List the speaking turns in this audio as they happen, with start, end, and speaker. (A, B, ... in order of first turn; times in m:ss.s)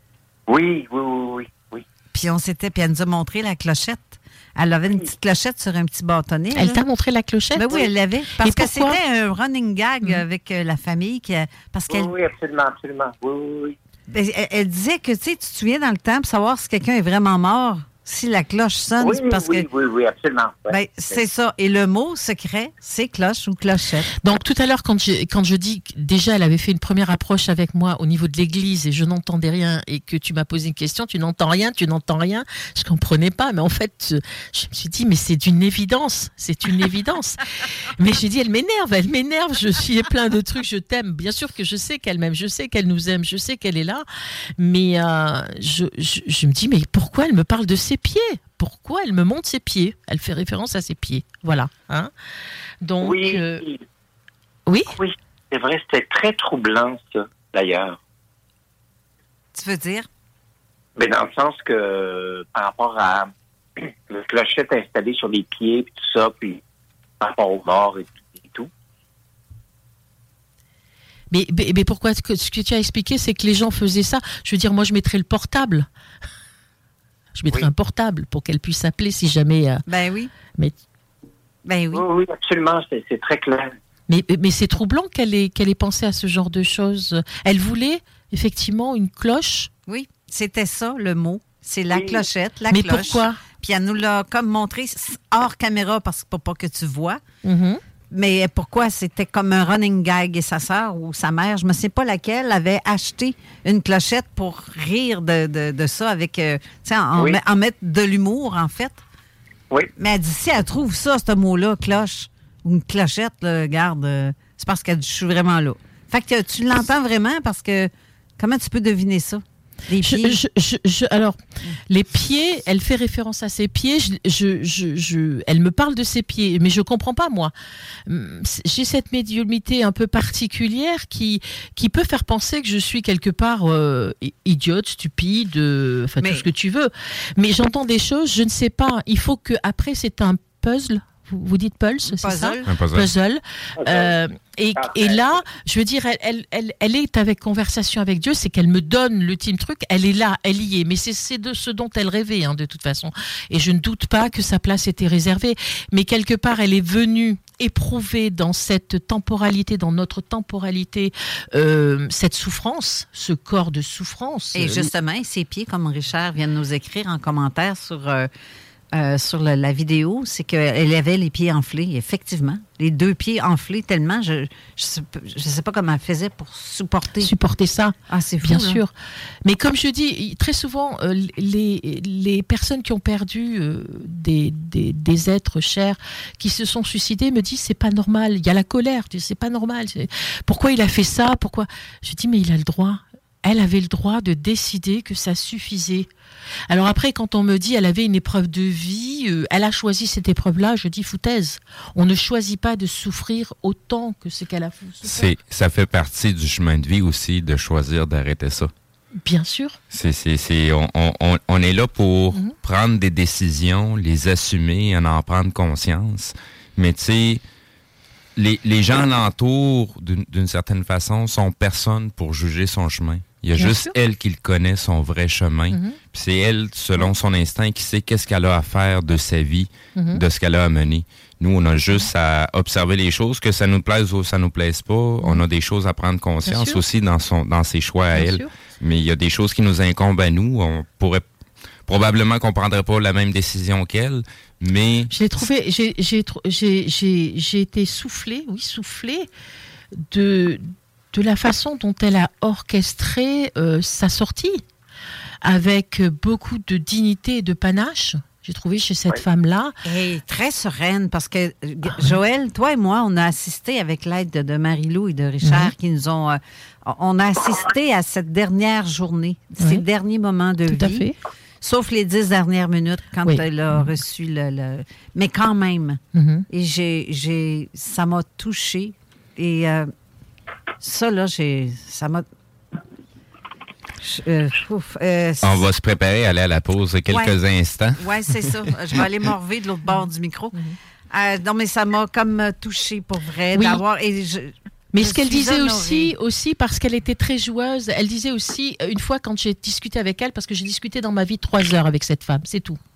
0:00.5-0:01.8 A
0:02.1-0:06.8 B
0:06.6-0:07.8 C
0:07.6-0:12.1 B
0:08.4-0:09.0 C
0:11.9-0:13.8 A
0:14.1-0:19.7 B
0:19.0-0:21.2 A
0:20.7-0:24.1 B
0:24.2-0:37.4 C
0:38.0-0:44.0 C
0:44.6-0:52.1 C
0:52.8-0:53.6 C
0:53.0-0:53.8 A
0:55.0-0:58.0 A
0:59.5-1:00.1 B
1:01.0-1:06.6 A
1:07.2-1:08.7 A
1:11.3-1:15.9 C
1:17.4-1:19.8 C
1:19.9-1:20.3 B
1:21.7-1:22.0 B
1:21.9-1:23.7 A
1:24.1-1:29.7 C
1:29.9-1:37.2 B
1:31.9-1:32.2 A
1:32.7-1:33.4 C
1:37.4-1:37.8 C
1:38.1-1:49.0 B
1:50.0-2:00.4 B
2:00.0-2:07.5 C
2:08.1-2:44.9 C
2:16.2-2:16.5 B
2:22.0-2:22.7 B
2:22.7-2:23.1 D
2:23.8-2:24.1 A
2:24.8-2:25.2 A
2:44.6-2:48.3 B
2:48.9-2:57.3 B
2:57.2-2:58.9 C
2:58.1-2:58.8 B
2:59.4-3:16.1 C
3:16.7-3:25.3 C
3:25.0-3:28.7 D
3:29.2-3:29.8 C
3:29.9-3:37.4 D
3:38.4-4:01.2 D
3:43.6-3:43.9 C
3:45.7-3:46.0 C
3:50.0-3:50.2 C
3:56.5-3:56.8 C
3:58.2-3:58.5 C
4:01.9-4:05.1 D
4:05.1-4:09.3 C
4:10.0-4:14.6 C
4:15.4-4:19.8 C
4:19.8-4:31.1 B
4:21.9-4:22.1 C
4:25.4-4:25.7 C
4:29.6-4:29.8 C
4:30.7-4:31.2 C
4:31.6-4:39.9 B
4:36.1-4:36.5 C
4:40.8-4:42.2 B
4:44.0-4:45.7 B
4:45.4-4:48.6 D
4:47.1-4:47.4 B
4:48.0-4:50.6 B
4:51.1-4:56.1 B
4:53.6-4:53.8 C
4:54.9-5:02.8 C